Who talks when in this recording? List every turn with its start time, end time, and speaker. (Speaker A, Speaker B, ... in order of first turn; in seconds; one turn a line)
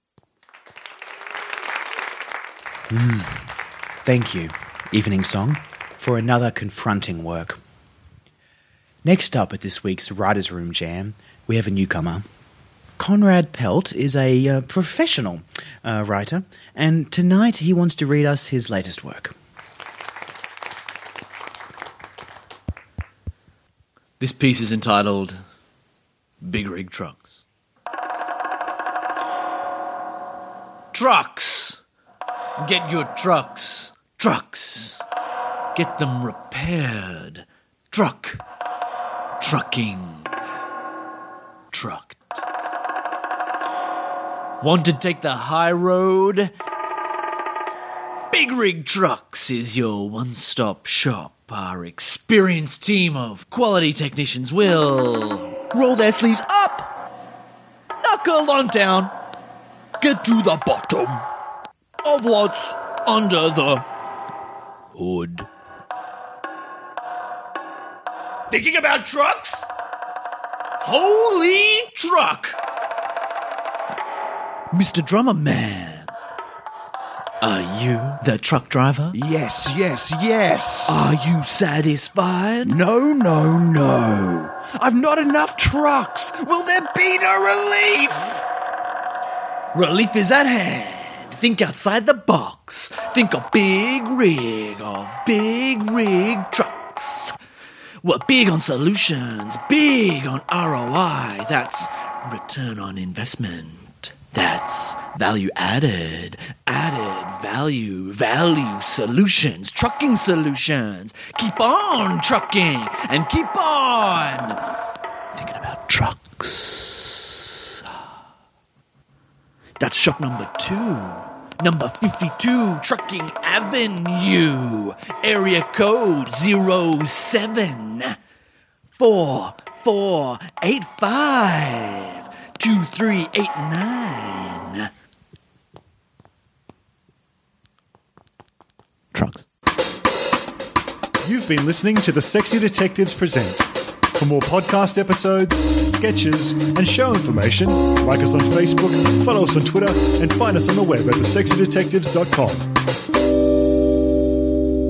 Speaker A: 2.9-3.4
Speaker A: 4.0-7.6
Speaker A: 9.0-12.2
Speaker A: 13.0-19.3
Speaker B: 24.2-25.4
Speaker B: 26.4-27.4
Speaker B: 30.9-31.8
Speaker B: 32.6-35.0
Speaker B: 35.7-38.4
Speaker B: 39.4-40.3
Speaker B: 41.7-42.4
Speaker B: 44.6-46.5
Speaker B: 48.3-56.9
Speaker B: 58.0-59.1
Speaker B: 60.0-61.2
Speaker B: 62.0-63.8
Speaker B: 64.9-65.5
Speaker B: 68.5-69.7
Speaker B: 70.8-72.6
Speaker B: 74.7-76.1
Speaker B: 77.4-79.2
Speaker C: 79.1-81.1
Speaker B: 80.8-82.8
Speaker C: 82.6-88.4
Speaker B: 89.7-97.3
Speaker B: 98.0-114.6
Speaker B: 115.3-117.7
Speaker B: 119.8-128.2
Speaker B: 128.9-134.9
Speaker B: 139.1-139.4
Speaker D: 141.2-152.7